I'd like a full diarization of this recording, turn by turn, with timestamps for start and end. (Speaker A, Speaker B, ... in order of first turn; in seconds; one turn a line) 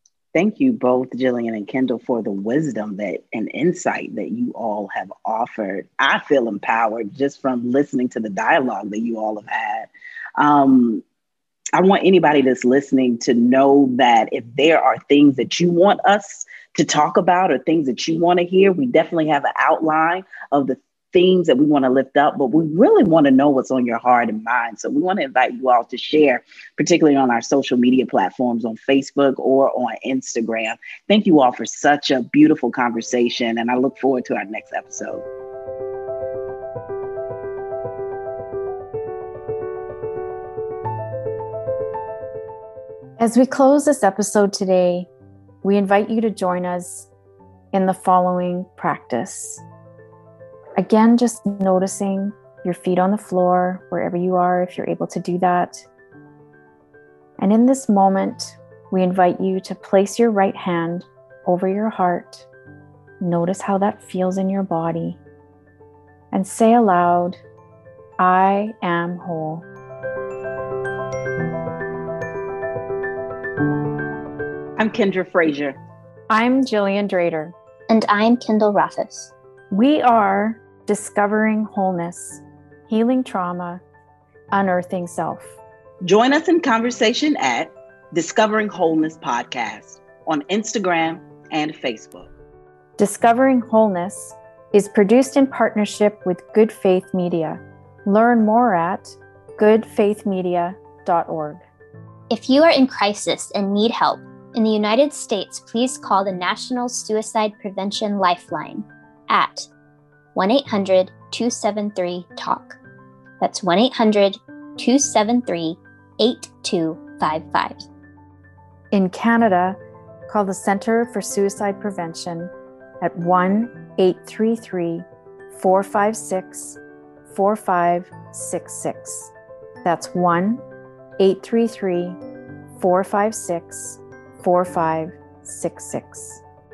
Speaker A: 0.3-11.0
Speaker A: 11.8-35.2
Speaker B: 43.2-45.1
Speaker B: 45.6-47.1
Speaker B: 47.7-49.6
Speaker B: 50.8-55.9
Speaker B: 57.4-62.5
Speaker B: 63.2-65.2
Speaker B: 66.3-67.4
Speaker B: 68.2-69.7
Speaker A: 74.8-75.8
Speaker B: 76.3-77.5
Speaker C: 77.9-79.3
Speaker B: 79.7-83.8
Speaker B: 84.5-85.6
Speaker A: 86.0-92.3
Speaker B: 93.0-101.6
Speaker C: 102.3-109.7
Speaker C: 110.3-112.8
Speaker C: 113.4-117.8
Speaker B: 118.9-129.3
Speaker B: 129.8-130.6
Speaker B: 131.2-132.2
Speaker B: 132.8-136.4